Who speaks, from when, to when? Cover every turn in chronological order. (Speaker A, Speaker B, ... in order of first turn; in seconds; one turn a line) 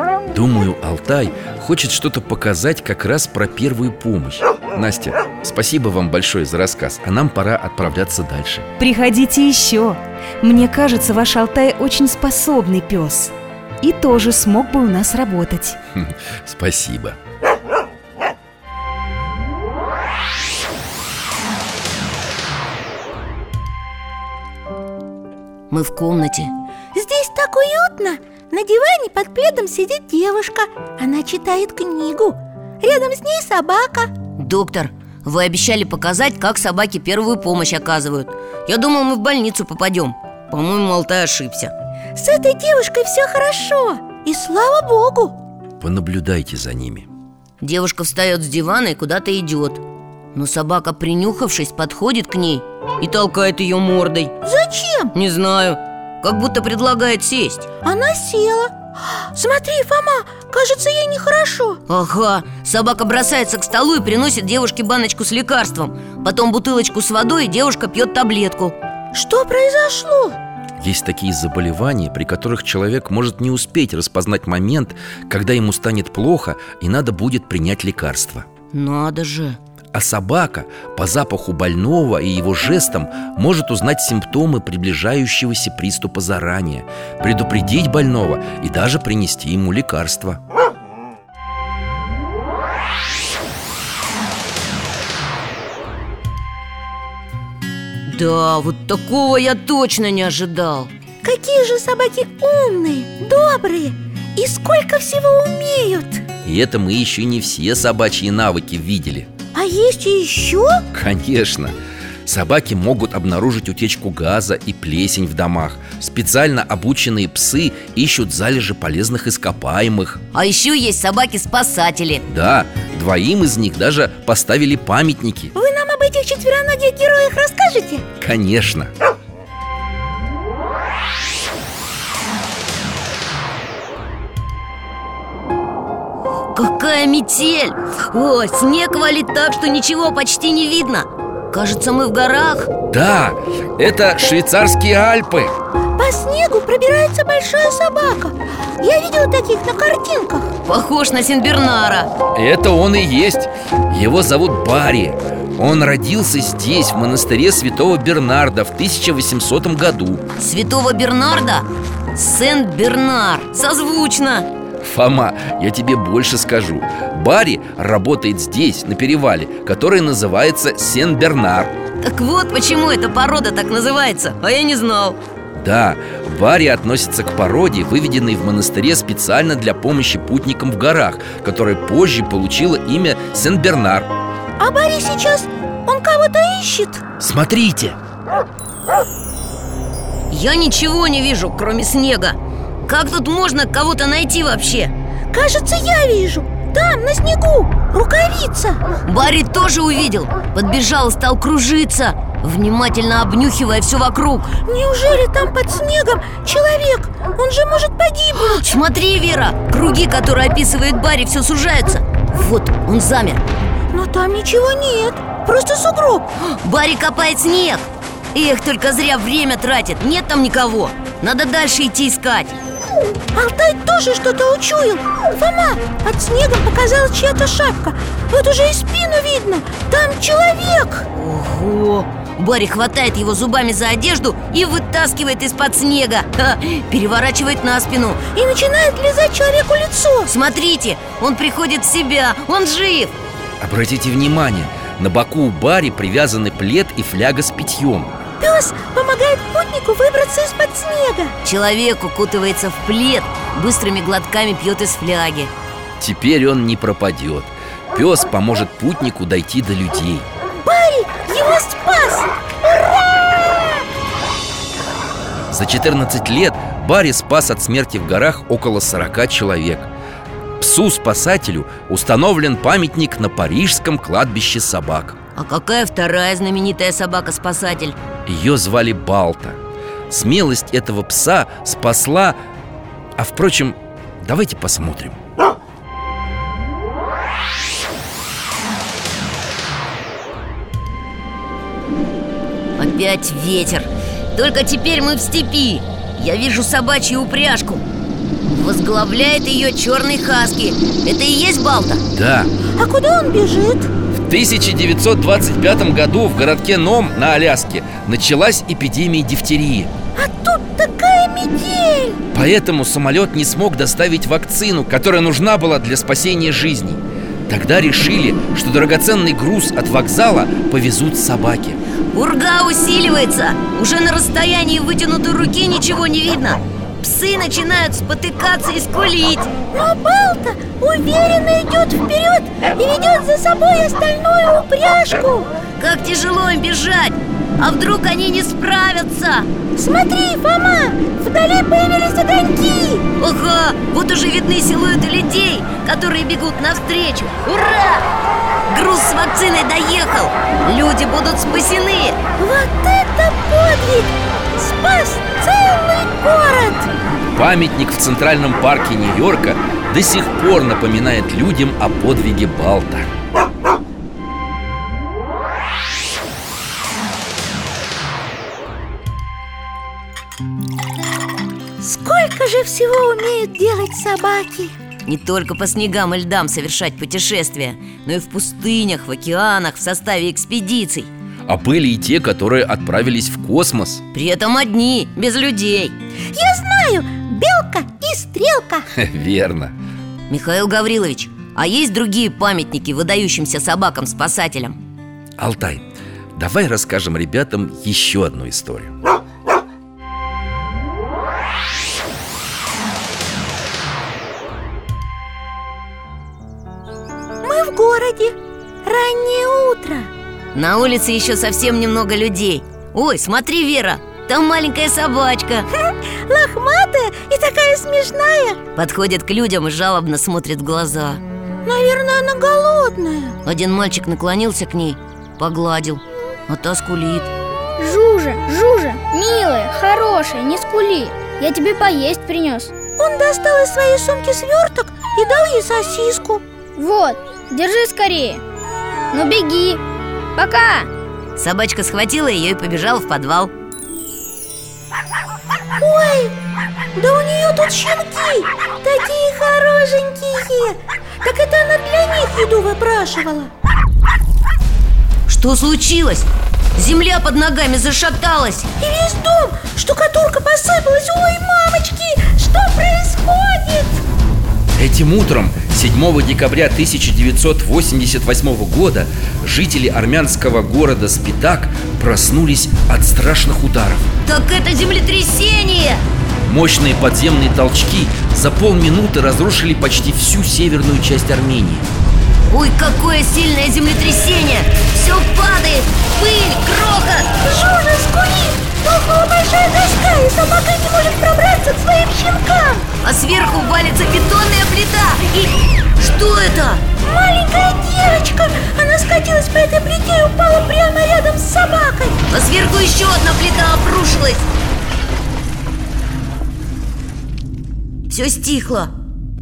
Speaker A: 0.3-8.7
Speaker B: 8.8-15.8
Speaker A: 15.9-17.2
Speaker C: 25.7-26.5
Speaker D: 26.9-34.1
Speaker C: 34.4-41.7
Speaker D: 42.1-45.4
Speaker A: 45.8-47.1
Speaker C: 47.6-49.8
Speaker C: 50.3-54.3
Speaker D: 54.4-55.1
Speaker C: 55.1-57.7
Speaker D: 57.8-61.8
Speaker C: 61.9-68.7
Speaker D: 69.1-70.4
Speaker A: 70.8-78.5
Speaker C: 78.7-79.6
Speaker A: 79.9-90.4
Speaker C: 98.0-100.9
Speaker D: 101.2-106.2
Speaker A: 106.4-109.3
Speaker D: 109.5-110.8
Speaker A: 110.9-120.2
Speaker C: 120.3-122.2
Speaker A: 122.3-125.5
Speaker D: 125.5-128.1
Speaker A: 128.2-128.9
Speaker C: 136.5-142.7
Speaker A: 142.9-145.5
Speaker D: 146.0-150.5
Speaker C: 150.7-152.1
Speaker A: 152.3-160.2
Speaker C: 160.4-164.5
Speaker A: 164.8-171.7
Speaker C: 172.0-175.2
Speaker A: 175.5-184.1
Speaker D: 184.6-187.0
Speaker A: 187.2-188.0
Speaker C: 190.3-194.9
Speaker D: 195.3-198.8
Speaker C: 199.1-204.5
Speaker D: 204.6-208.7
Speaker C: 208.4-213.4
Speaker D: 213.9-216.3
Speaker C: 216.4-222.6
Speaker D: 223.3-231.1
Speaker C: 231.1-238.2
Speaker D: 238.3-240.3
Speaker C: 240.3-243.1
Speaker A: 243.6-248.1
Speaker D: 248.4-251.3
Speaker C: 251.4-255.5
Speaker A: 256.0-260.3
Speaker D: 260.6-262.9
Speaker A: 265.5-269.9
Speaker A: 270.6-275.2
Speaker C: 275.4-278.0
Speaker A: 278.2-282.4
Speaker A: 283.2-285.2
Speaker C: 292.8-297.8
Speaker C: 298.4-302.0
Speaker A: 302.1-302.5
Speaker D: 302.8-303.9
Speaker A: 304.1-309.9
Speaker D: 310.1-312.2
Speaker A: 312.3-321.8
Speaker C: 322.1-329.5
Speaker D: 329.7-335.5
Speaker C: 335.8-339.5
Speaker D: 339.8-343.1
Speaker C: 343.2-348.1
Speaker C: 348.7-352.2
Speaker D: 352.4-356.9
Speaker A: 357.3-363.1
Speaker D: 371.8-374.7
Speaker C: 375.1-381.1
Speaker A: 381.5-384.0
Speaker C: 384.1-385.9
Speaker D: 386.3-388.9
Speaker A: 388.9-389.7
Speaker C: 390.3-394.8
Speaker A: 395.4-398.9
Speaker D: 407.4-410.1
Speaker C: 410.5-415.7
Speaker D: 415.8-418.6
Speaker C: 418.8-421.2
Speaker D: 421.6-423.4
Speaker C: 423.4-427.3
Speaker E: 427.8-432.7
Speaker D: 433.0-436.4
Speaker E: 436.8-438.4
Speaker E: 439.1-439.8
Speaker E: 440.4-440.9
Speaker C: 441.4-443.5
Speaker D: 445.8-446.4
Speaker D: 446.9-453.5
Speaker C: 455.3-458.7
Speaker D: 458.8-464.0
Speaker A: 464.7-474.1
Speaker C: 474.2-476.0
Speaker A: 476.4-481.9
Speaker C: 482.5-487.3
Speaker D: 487.4-492.9
Speaker C: 493.0-496.8
Speaker D: 497.0-502.2
Speaker C: 502.3-504.4
Speaker C: 508.1-508.9